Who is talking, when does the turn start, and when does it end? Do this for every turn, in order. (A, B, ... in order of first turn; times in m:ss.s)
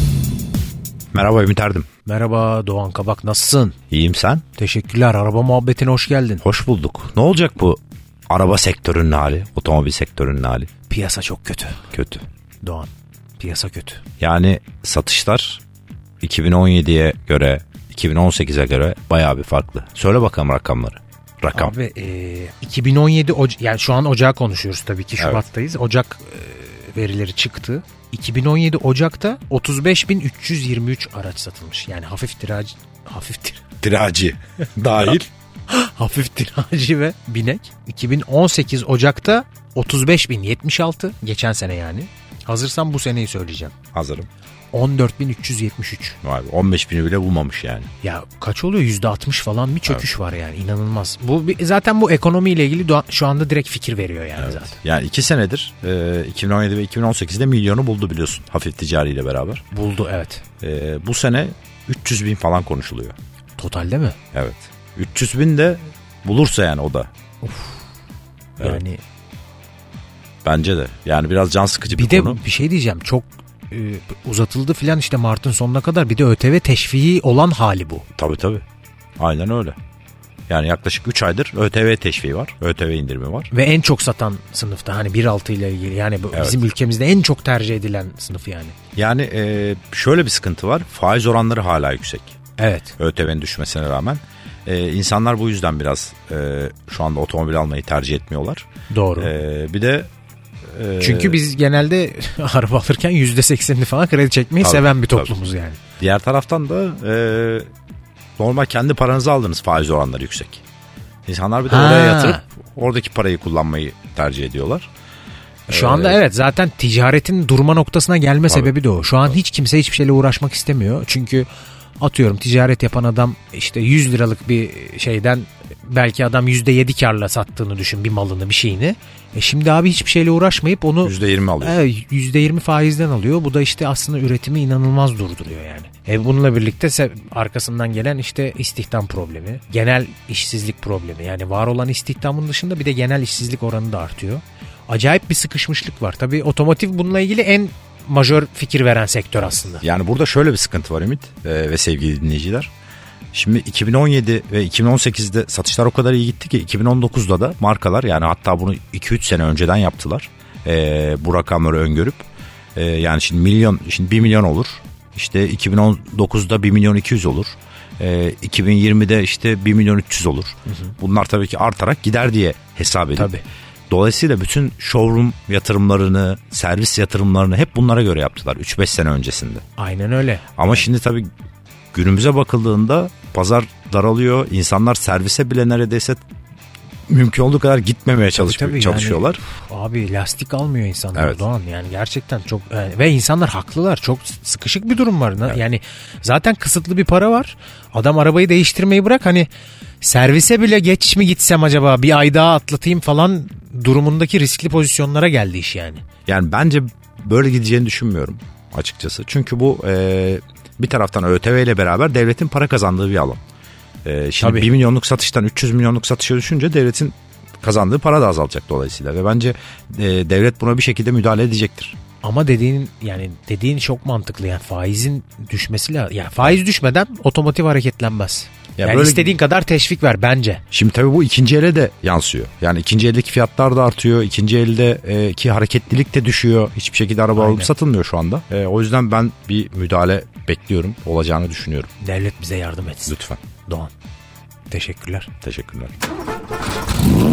0:01.1-0:01.9 A
0:02.0-0:03.8 B
0:03.9-0:04.4 A
0:04.6-0:06.4 B
0:06.4-0:10.7 A
0:10.9-0:11.9 B
0:11.9-0:12.2 A
0:12.6-0:14.0 B
0:14.2-0:15.6 A
0:16.2-0:21.7 A
0:21.5-0:33.6 B
0:25.2-0:25.4 A
0:33.8-0:35.3 A
0:35.7-0:43.7 B
0:43.9-0:44.3 A
0:44.7-0:46.2 B
0:46.2-0:47.9 A
0:48.0-0:54.7 B
0:54.4-0:59.6 A
0:59.7-1:00.4 B
1:00.6-1:03.1 A
1:03.6-1:04.2 B
1:04.3-1:07.1 A
1:07.4-1:07.8 B
1:08.6-1:09.0 B
1:10.4-1:12.4 A
1:11.9-1:18.0 B
1:18.2-1:18.6 A
1:19.2-1:19.8 A
1:20.5-1:23.5 A
1:23.5-1:28.7 B
1:29.0-1:32.4 A
1:32.6-1:32.9 B
1:33.0-1:38.6 A
1:38.9-1:39.3 B
1:39.2-1:40.1 A
1:40.6-1:41.4 A
1:41.0-1:45.8 B
1:44.6-1:45.3 A
1:46.0-1:47.7 A
1:48.4-1:50.6 A
1:51.3-1:54.9 A
1:51.7-1:52.4 B
1:55.7-2:01.5 B
1:55.7-1:56.2 A
1:58.5-1:58.7 A
2:02.0-2:29.8 B
2:11.0-2:11.8 A
2:29.8-2:32.7 A
2:33.3-2:53.3 A
2:53.2-2:53.4 B
2:53.9-2:59.6 A
2:59.8-3:00.8 B
3:00.6-3:01.3 A
3:01.9-3:06.2 A
3:07.1-3:09.4 A
3:08.3-3:19.5 B
3:11.1-3:11.4 A
3:20.0-3:26.0 B
3:26.3-3:33.4 A
3:34.0-3:42.0 A
3:34.4-3:34.7 B
3:42.2-3:50.6 B
3:48.8-3:49.3 A
3:50.7-4:01.9 A
3:57.4-3:57.7 B
4:02.0-4:03.9 B
4:03.1-4:03.4 A
4:04.7-4:05.3 B
4:05.4-4:05.9 A